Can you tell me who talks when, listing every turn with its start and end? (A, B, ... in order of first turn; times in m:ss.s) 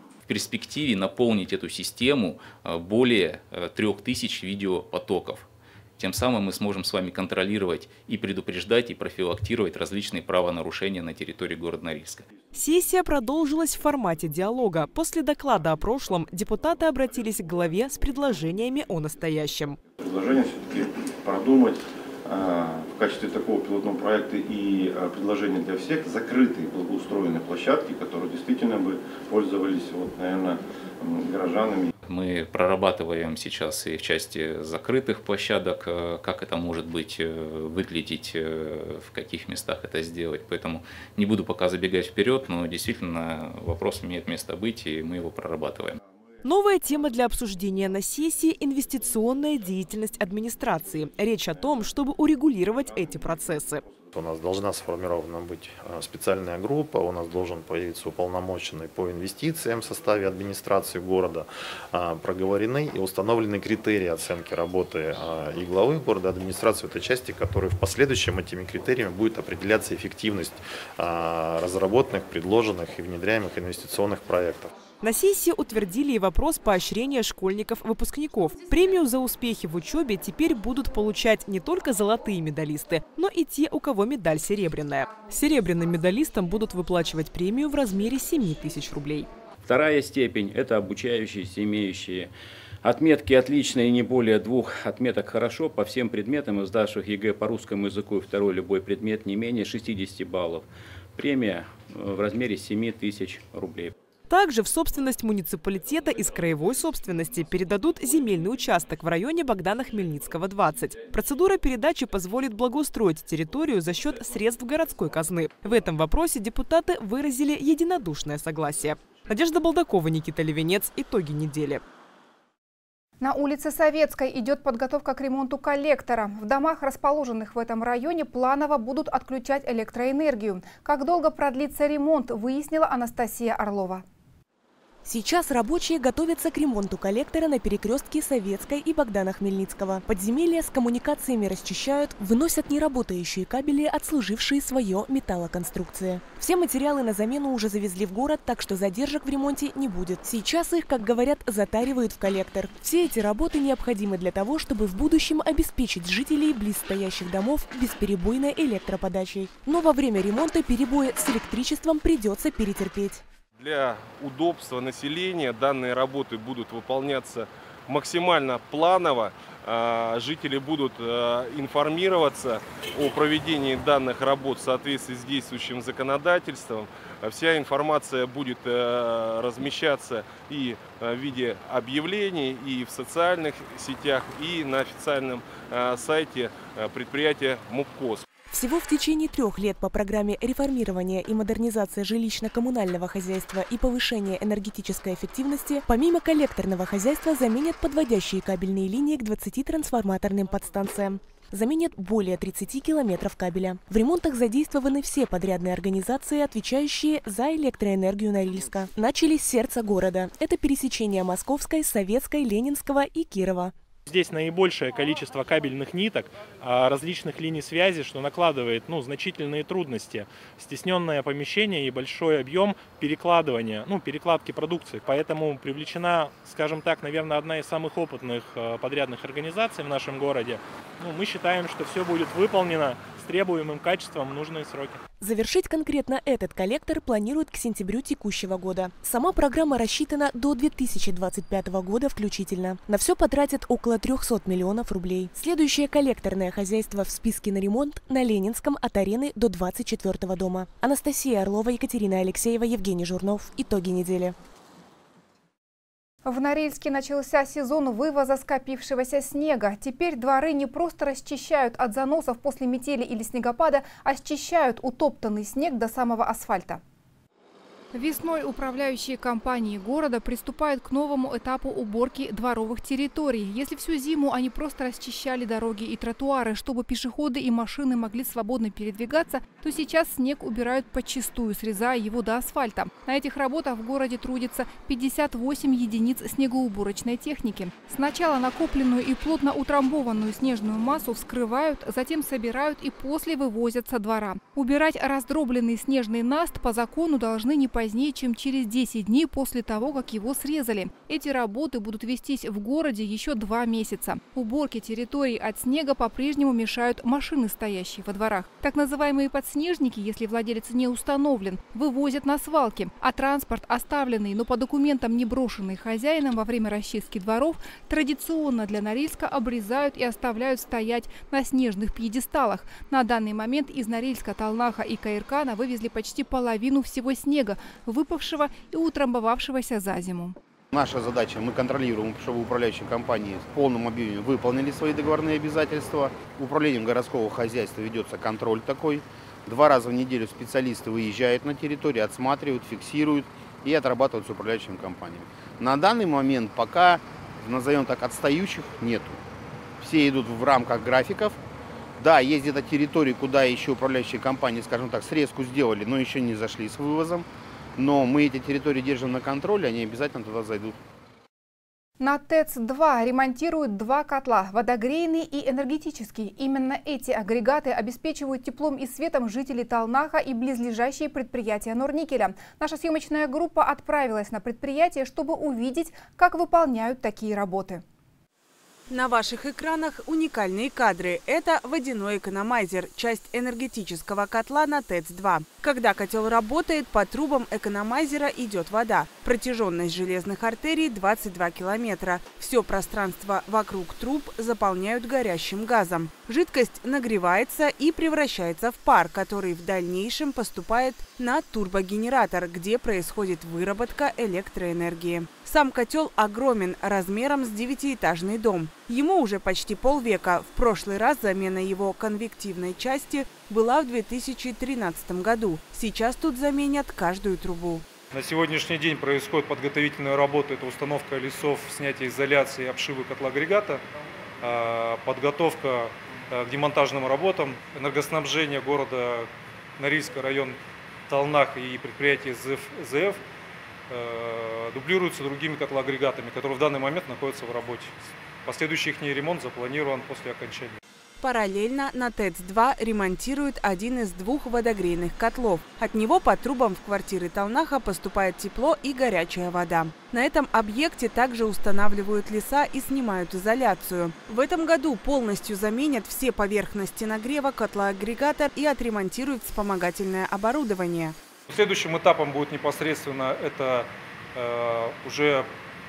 0:00.2-0:05.5 A
0:06.0-0:12.2 A
0:12.5-0:19.8 B
0:20.0-0:31.9 C
0:32.1-0:46.0 A
0:46.4-0:53.8 B
0:54.1-1:14.7 D
1:15.0-1:29.3 B
1:29.6-1:43.9 E
1:44.3-2:01.8 B
2:03.2-2:14.0 F
2:15.0-2:43.2 G
2:43.6-3:08.3 H
3:08.5-3:33.7 G
3:34.1-3:55.0 I
3:55.2-4:14.3 G
4:16.2-4:26.8 F
4:27.9-5:30.4 F
5:30.7-5:49.2 J
5:49.8-5:51.4 J
5:52.0-5:57.3 J
5:57.8-6:00.8 J
6:02.0-6:17.8 F
6:18.9-6:57.8 K
6:58.1-7:03.8 L
7:04.4-7:10.6 L
7:11.1-7:13.2 L
7:13.9-7:20.8 L
7:21.2-7:41.2 K
7:41.5-7:45.5 L